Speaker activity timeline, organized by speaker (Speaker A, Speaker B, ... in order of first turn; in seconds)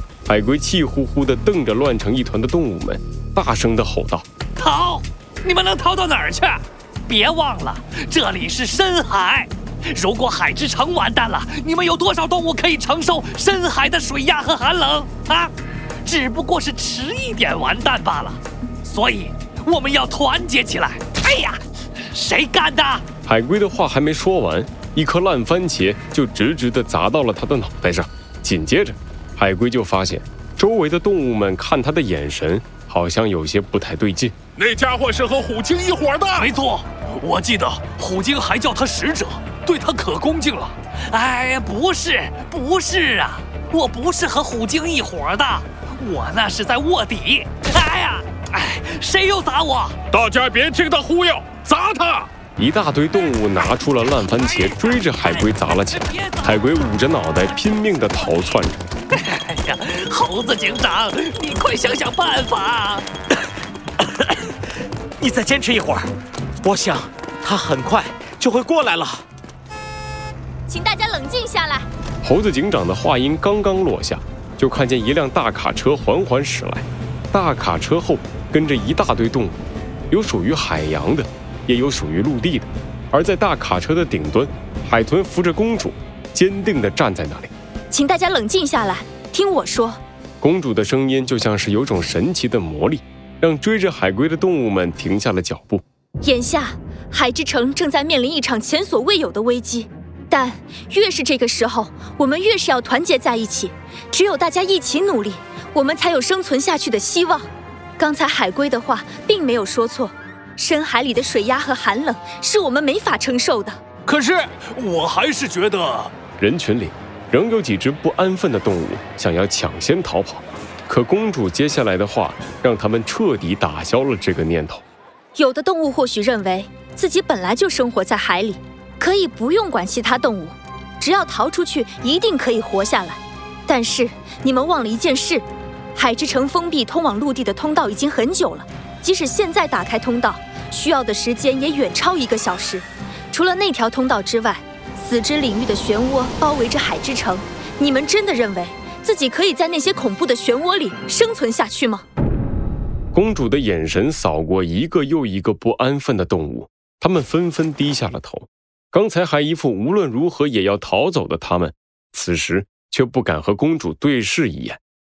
Speaker A: 0.2-4.2, 23.2-34.3, 52.6-58.8, 72.2-79.6, 80.1-87.5, 90.4-95.8, 116.4-124.8, 153.1-164.8
Speaker B: 4.5-15.5, 16.0-23.0, 36.4-50.0, 54.4-56.8, 59.1-63.1
Speaker C: 34.6-36.5, 50.1-52.3
Speaker D: 65.2-66.1, 66.6-69.2
Speaker E: 70.7-71.9, 87.9-90.0, 96.2-107.5, 108.0-113.8, 125.3-152.0